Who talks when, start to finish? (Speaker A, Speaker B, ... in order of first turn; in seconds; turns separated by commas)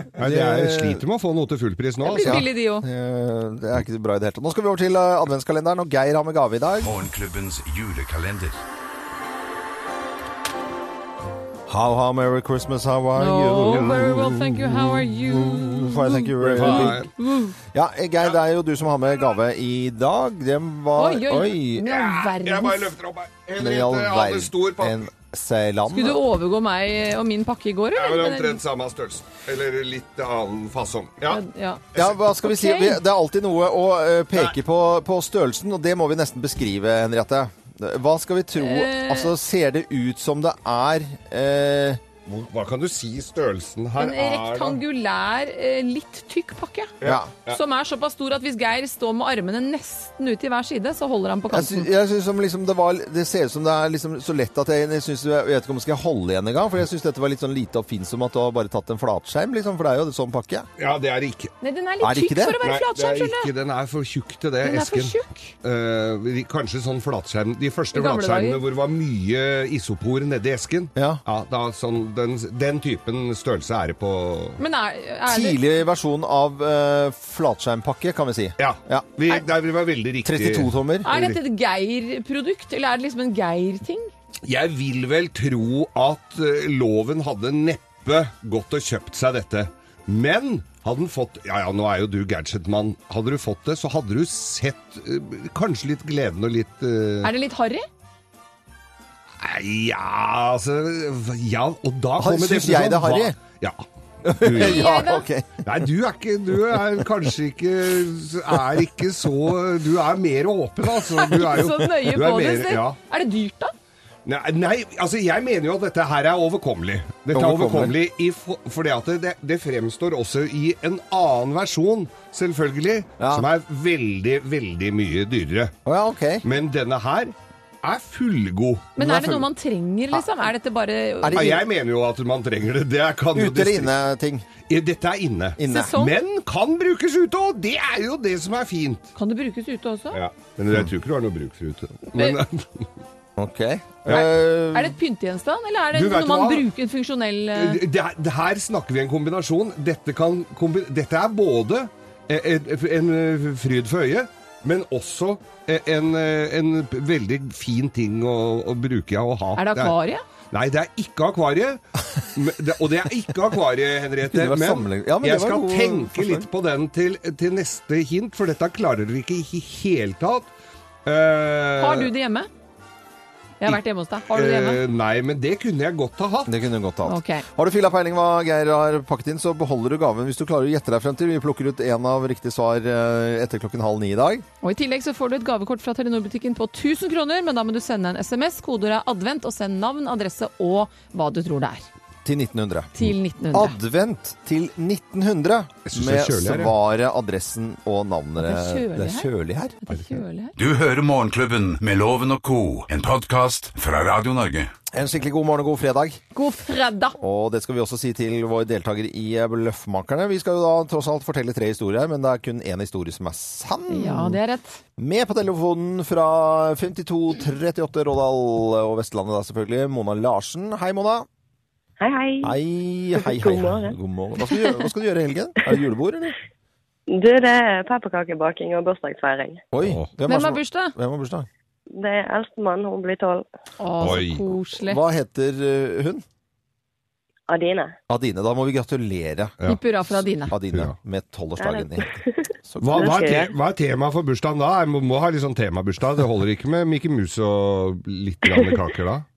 Speaker A: 0.2-2.5, Speaker B: 0.2-1.0, Speaker C: 2.0-2.9, Speaker B: 2.2-7.0, Speaker D: 6.8-8.6, Speaker B: 11.7-13.9, Speaker C: 13.2-17.6, Speaker A: 13.7-14.9, Speaker B: 15.7-17.1, Speaker A: 16.4-17.1, Speaker B: 17.7-21.9, Speaker C: 21.0-22.9, Speaker A: 21.9-25.1, Speaker B: 23.6-26.2, Speaker C: 25.9-28.6, Speaker A: 27.9-31.4, Speaker C: 31.3-31.8, Speaker B: 31.9-42.0, Speaker C: 32.4-33.0, Speaker C: 38.6-39.3, Speaker A: 42.3-44.8, Speaker C: 44.0-46.9, Speaker A: 47.0-47.6, Speaker B: 47.0-47.3, Speaker C: 47.5-51.9, Speaker B: 51.5-60.7, Speaker A: 60.8-61.5, Speaker C: 61.6-63.5, Speaker B: 62.0-62.6, Speaker A: 62.6-74.6, Speaker C: 64.6-65.5, Speaker C: 68.0-68.6, Speaker B: 71.0-71.2, Speaker C: 74.6-75.6, Speaker B: 75.3-79.1, Speaker A: 78.6-81.4, Speaker B: 80.2-81.1, Speaker C: 81.0-84.1, Speaker A: 84.5-97.3, Speaker C: 97.2-97.9, Speaker A: 99.4-104.9, Speaker B: 102.2-103.4, Speaker B: 104.2-105.7, Speaker C: 104.6-105.3, Speaker A: 105.6-113.0, Speaker C: 111.1-113.7, Speaker A: 114.2-125.7, Speaker B: 117.3-118.0, Speaker B: 123.2-123.5, Speaker B: 125.9-126.5, Speaker A: 126.4-128.9, Speaker C: 129.0-131.6, Speaker B: 129.0-129.5, Speaker B: 131.2-131.6, Speaker A: 131.3-133.9, Speaker B: 133.3-134.4, Speaker A: 134.7-139.1, Speaker B: 135.6-135.9, Speaker C: 135.7-136.2, Speaker C: 139.2-140.2, Speaker A: 140.1-142.9, Speaker B: 143.4-145.0, Speaker C: 144.1-147.8, Speaker A: 145.9-146.7, Speaker A: 147.5-160.0, Speaker C: 159.6-160.2, Speaker A: 160.5-170.5, Speaker B: 164.3-166.5, Speaker A: 171.1-172.1, Speaker C: 171.8-172.5, Speaker C: 173.6-174.8, Speaker A: 173.7-176.6, Speaker B: 176.5-184.5, Speaker C: 177.1-177.4, Speaker C: 184.6-191.9, Speaker B: 192.2-192.9, Speaker C: 192.9-193.8, Speaker B: 193.5-199.8, Speaker A: 195.9-196.7, Speaker C: 198.4-199.3, Speaker C: 199.8-200.5, Speaker D: 200.6-204.7, Speaker B: 204.9-206.2, Speaker C: 206.3-207.2, Speaker B: 207.2-214.4, Speaker C: 213.9-214.8, Speaker B: 215.0-221.3, Speaker E: 222.0-222.6, Speaker B: 222.4-226.4, Speaker E: 223.2-223.9, Speaker E: 227.1-229.6, Speaker B: 229.7-231.5, Speaker A: 229.8-230.1, Speaker C: 230.3-231.0, Speaker E: 231.9-233.5, Speaker C: 233.8-235.0, Speaker A: 234.0-234.4, Speaker B: 234.8-236.2, Speaker E: 237.5-238.0, Speaker B: 238.1-239.6, Speaker C: 239.7-240.6, Speaker B: 240.5-243.2, Speaker E: 241.6-243.5, Speaker A: 242.8-249.3, Speaker E: 248.5-248.8